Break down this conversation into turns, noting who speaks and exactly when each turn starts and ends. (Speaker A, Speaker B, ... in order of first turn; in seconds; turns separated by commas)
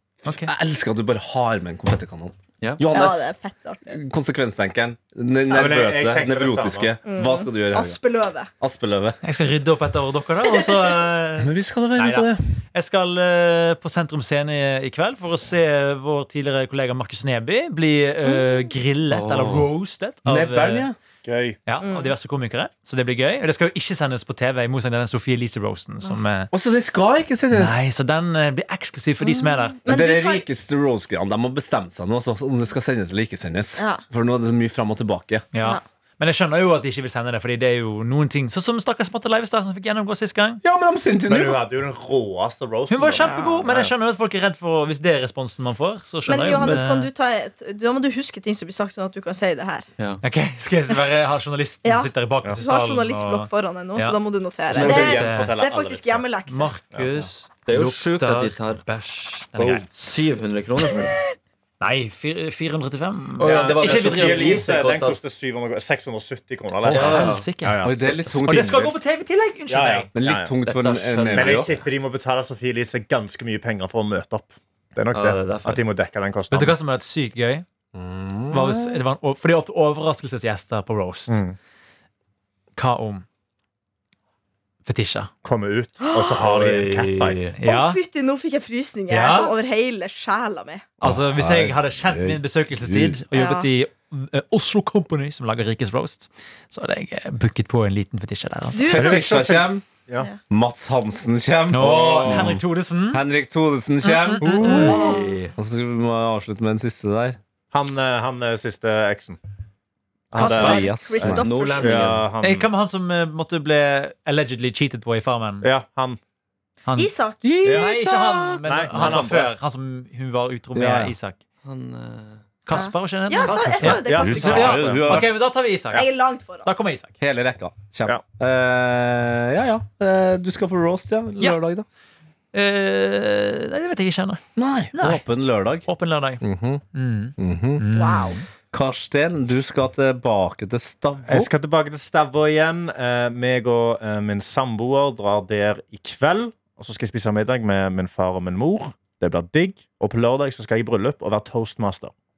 Speaker A: 0.2-0.5, Speaker B: 0.3-3.3, Speaker C: 2.6-2.9, Speaker D: 2.9-4.0, Speaker B: 3.9-8.0, Speaker E: 5.5-7.0, Speaker D: 7.0-8.5, Speaker B: 8.6-9.2, Speaker A: 9.2-20.9, Speaker D: 10.5-11.1, Speaker B: 11.4-12.4, Speaker D: 18.2-18.7, Speaker C: 19.1-19.7, Speaker B: 20.2-20.9, Speaker E: 21.2-21.6, Speaker A: 21.7-26.5, Speaker D: 21.8-22.1, Speaker B: 26.5-27.9, Speaker A: 27.5-29.8, Speaker D: 29.2-30.4, Speaker B: 29.9-35.4, Speaker D: 33.8-34.0, Speaker A: 35.5-40.6, Speaker B: 40.6-41.6, Speaker E: 41.3-43.9, Speaker A: 42.9-47.1, Speaker D: 43.2-43.6, Speaker D: 46.2-49.9, Speaker A: 50.2-54.2, Speaker D: 51.8-56.7, Speaker C: 54.7-55.3, Speaker A: 54.8-55.6, Speaker E: 54.8-56.3, Speaker A: 56.5-59.8, Speaker C: 57.6-58.8, Speaker C: 59.5-61.1, Speaker A: 61.8-64.6, Speaker C: 63.4-65.2, Speaker E: 63.4-68.8, Speaker C: 66.8-67.5, Speaker A: 66.9-67.8, Speaker B: 66.9-68.9, Speaker A: 68.4-70.1, Speaker E: 69.7-70.5, Speaker B: 70.1-71.7, Speaker C: 70.8-71.6, Speaker E: 71.3-76.8, Speaker C: 75.1-75.9, Speaker A: 76.5-77.6, Speaker B: 77.9-79.0, Speaker A: 78.5-81.4, Speaker E: 81.3-81.5, Speaker A: 82.8-83.2, Speaker A: 84.8-85.3, Speaker E: 85.4-87.5, Speaker D: 86.0-86.3, Speaker C: 86.4-87.5, Speaker A: 87.6-88.0, Speaker D: 87.6-90.9, Speaker A: 89.1-89.5, Speaker A: 91.0-99.0, Speaker B: 91.0-93.2, Speaker D: 93.3-93.7, Speaker D: 98.7-99.7, Speaker B: 98.9-99.8, Speaker E: 99.0-99.5, Speaker B: 100.5-104.5, Speaker A: 101.7-103.2, Speaker E: 104.4-104.9, Speaker A: 104.4-104.9, Speaker D: 104.6-105.3, Speaker C: 105.0-105.5, Speaker B: 105.5-107.4, Speaker E: 107.7-109.4, Speaker E: 110.3-112.7, Speaker D: 110.3-112.0, Speaker B: 110.3-111.5, Speaker C: 111.3-112.3, Speaker A: 112.4-115.7, Speaker E: 115.6-116.2, Speaker D: 116.9-118.6, Speaker B: 117.4-117.9, Speaker A: 117.6-121.4, Speaker E: 117.6-117.9, Speaker E: 118.6-119.5, Speaker B: 120.7-121.1, Speaker C: 121.6-122.4, Speaker A: 122.7-126.0, Speaker D: 122.7-124.9, Speaker E: 123.4-125.3, Speaker B: 123.8-125.3, Speaker D: 125.9-126.7, Speaker A: 126.6-127.1, Speaker B: 127.2-131.8, Speaker A: 132.5-134.4, Speaker B: 134.6-135.9, Speaker A: 134.9-135.2, Speaker A: 135.8-136.4, Speaker B: 136.4-136.8, Speaker A: 136.9-138.4, Speaker B: 137.4-137.8, Speaker D: 137.9-138.4, Speaker B: 138.7-141.5, Speaker E: 141.3-152.1